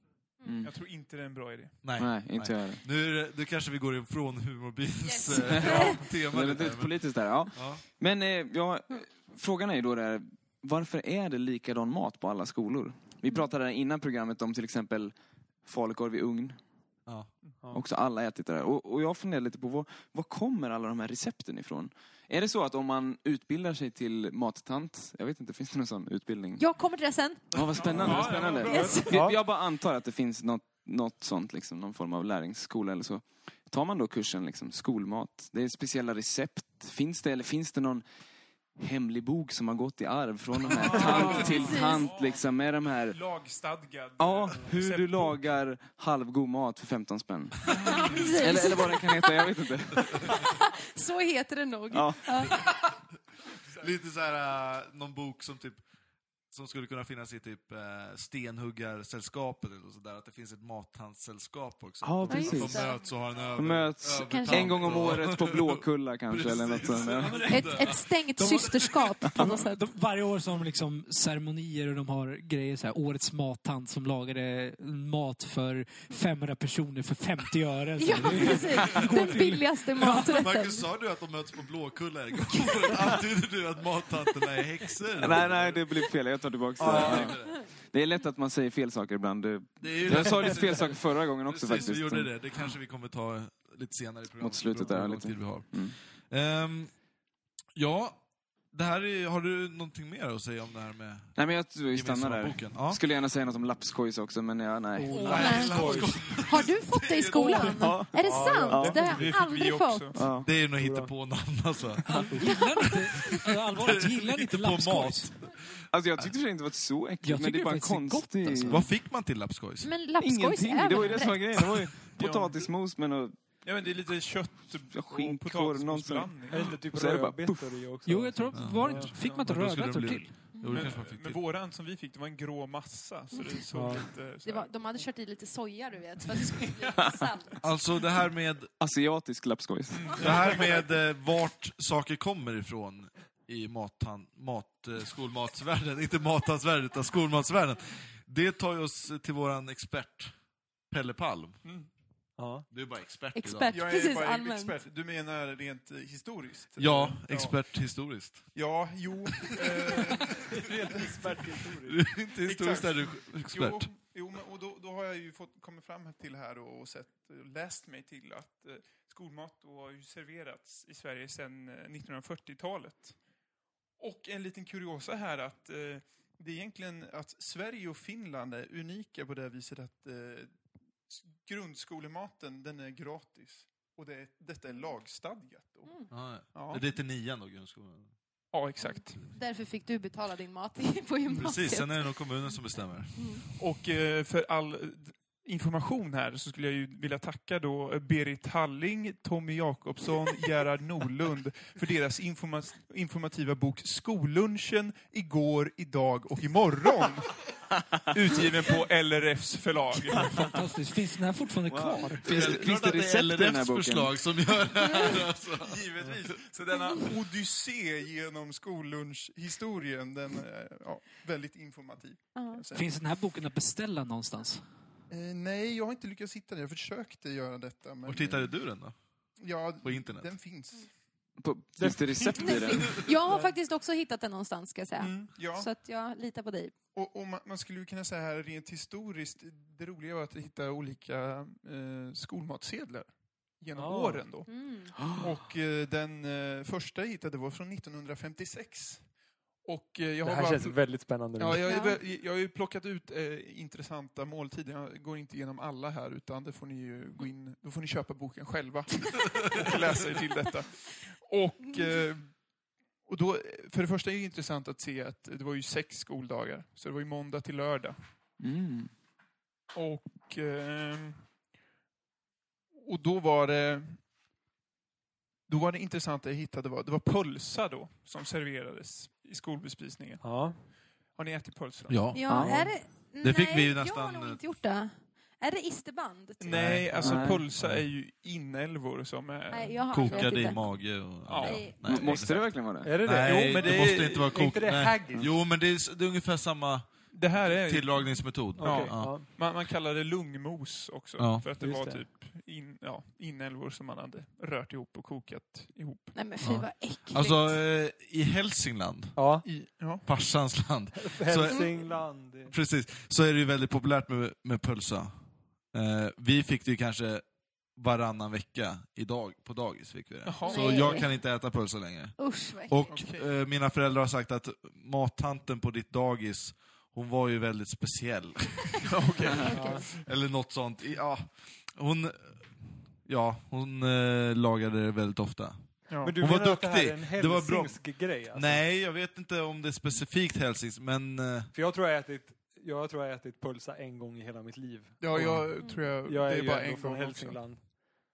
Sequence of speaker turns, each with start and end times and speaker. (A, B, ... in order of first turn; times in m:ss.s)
0:00.4-0:00.7 A
0:00.6-0:01.8 B
0:01.8-0:07.0 C
0:02.0-0:02.8 A
0:05.0-0:06.0 D
0:05.4-0:15.1 A
0:07.5-0:07.8 C
0:15.6-0:16.6 A
0:17.7-0:26.6 A
0:26.6-0:27.4 D
0:27.5-0:29.0 C
0:27.5-0:38.0 A
0:27.8-0:29.0 B
0:28.1-0:29.2 D
0:29.1-0:29.4 E
0:38.8-0:43.2 A
0:40.7-0:42.5 B
0:40.9-0:42.1 D
0:43.1-0:45.4 B
0:44.2-0:50.3 A
0:47.7-0:48.4 C
0:47.7-0:49.4 D
0:47.8-0:48.3 B
0:50.1-0:50.4 C
0:50.2-0:52.7 D
0:51.9-0:52.5 A
0:53.8-0:55.8 C
0:56.5-1:08.1 C
1:02.0-1:02.9 A
1:02.3-1:03.0 D
1:03.6-1:07.4 A
1:04.0-1:05.0 D
1:07.2-1:20.4 F
1:07.4-1:09.8 D
1:18.0-1:20.9 D
1:18.8-1:19.1 C
1:20.3-1:25.8 C
1:25.2-1:32.4 A
1:26.8-1:27.6 C
1:29.8-1:36.9 C
1:34.4-1:35.9 A
1:37.7-1:38.2 C
1:38.7-1:43.0 C
1:41.3-1:45.4 A
1:45.0-1:46.2 E
1:45.0-1:46.1 F
1:45.2-1:48.0 C
1:45.2-1:50.2 D
1:47.6-1:49.1 A
1:48.2-1:49.3 E
1:48.9-1:50.2 B
1:50.1-1:50.5 A
1:50.4-1:55.6 C
1:50.8-1:51.1 E
1:52.0-1:55.3 F
1:52.4-1:52.7 D
1:55.9-1:58.9 A
1:57.2-1:58.9 F
1:58.6-1:59.9 C
1:59.8-2:01.8 D
2:00.2-2:03.4 A
2:02.2-2:02.7 B
2:03.6-2:06.7 B
2:04.9-2:07.7 A
2:06.5-2:09.3 E
2:08.0-2:10.6 F
2:08.5-2:11.4 C
2:10.5-2:10.9 D
2:10.7-2:14.7 B
2:13.7-2:14.0 E
2:14.4-2:17.6 D
2:17.6-2:18.7 C
2:18.8-2:20.2 A
2:19.9-2:20.9 B
2:20.2-2:30.3 C
2:30.9-2:31.6 C
2:32.4-2:32.7 E
2:32.7-2:33.7 C
2:33.3-2:34.8 D
2:33.7-2:37.6 B
2:36.8-2:38.5 C
2:38.5-2:41.2 B
2:39.3-2:40.6 C
2:40.4-2:42.0 E
2:41.8-2:43.9 C
2:42.4-2:53.2 B
2:54.0-3:00.5 B
3:01.1-3:06.8 B
3:06.1-3:08.1 C
3:08.5-3:09.2 B
3:08.8-3:12.3 D
3:11.3-3:13.4 C
3:13.1-3:13.4 D
3:13.5-3:27.4 B
3:28.1-3:30.5 B
3:30.2-3:32.4 F
3:31.7-3:34.1 A
3:32.2-3:36.4 C
3:34.9-3:35.2 D
3:35.6-3:42.9 B
3:42.4-3:42.6 D
3:42.7-3:44.6 F
3:45.1-3:48.5 B
3:48.0-3:49.0 C
3:49.4-3:50.9 B
3:49.8-3:50.3 C
3:51.4-3:53.0 A
3:51.8-3:52.3 E
3:52.4-3:56.7 D
3:55.0-3:55.7 B
3:56.9-4:09.0 B
4:03.7-4:04.2 E
4:04.5-4:04.9 D
4:09.6-4:22.4 B
4:10.2-4:11.7 E
4:11.6-4:12.0 D
4:19.3-4:19.7 C
4:21.7-4:22.0 D
4:23.0-4:28.0 B
4:28.4-4:28.9 A
4:29.7-4:31.2 B
4:32.8-4:34.0 B
4:35.5-4:40.4 B
4:40.2-4:40.6 E
4:41.1-4:42.1 B
4:41.9-4:42.5 C
4:42.1-4:46.6 D
4:42.3-4:42.6 A
4:42.3-4:42.7 E
4:43.2-4:44.4 C
4:46.4-4:50.3 B
4:46.5-4:47.8 C
4:47.0-4:47.4 A
4:49.5-4:50.8 D
4:49.9-4:59.3 C
4:51.2-4:51.7 B
4:51.4-4:52.0 D
4:51.8-4:52.9 A
4:52.8-4:55.3 E
4:53.2-4:54.4 B
4:57.1-5:06.2 B
4:58.6-4:59.2 E
5:01.2-5:01.5 C
5:01.6-5:02.0 E
5:06.1-5:07.6 D
5:06.4-5:09.3 C
5:09.2-5:09.4 E
5:09.4-5:10.0 B
5:10.0-5:11.7 C
5:11.0-5:12.5 E
5:12.4-5:15.1 C
5:15.7-5:17.2 C
5:17.7-5:22.2 C
5:20.2-5:21.0 B
5:20.4-5:21.1 D
5:22.2-5:22.9 D
5:22.7-5:28.9 C
5:22.9-5:23.2 B
5:28.8-5:30.0 B
5:29.4-5:29.9 D
5:29.4-5:41.5 C
5:29.5-5:29.8 E
5:35.9-5:36.2 B
5:36.0-5:38.6 E
5:41.5-5:45.3 E
5:45.0-5:47.4 B
5:45.1-5:45.5 C
5:46.0-5:47.7 E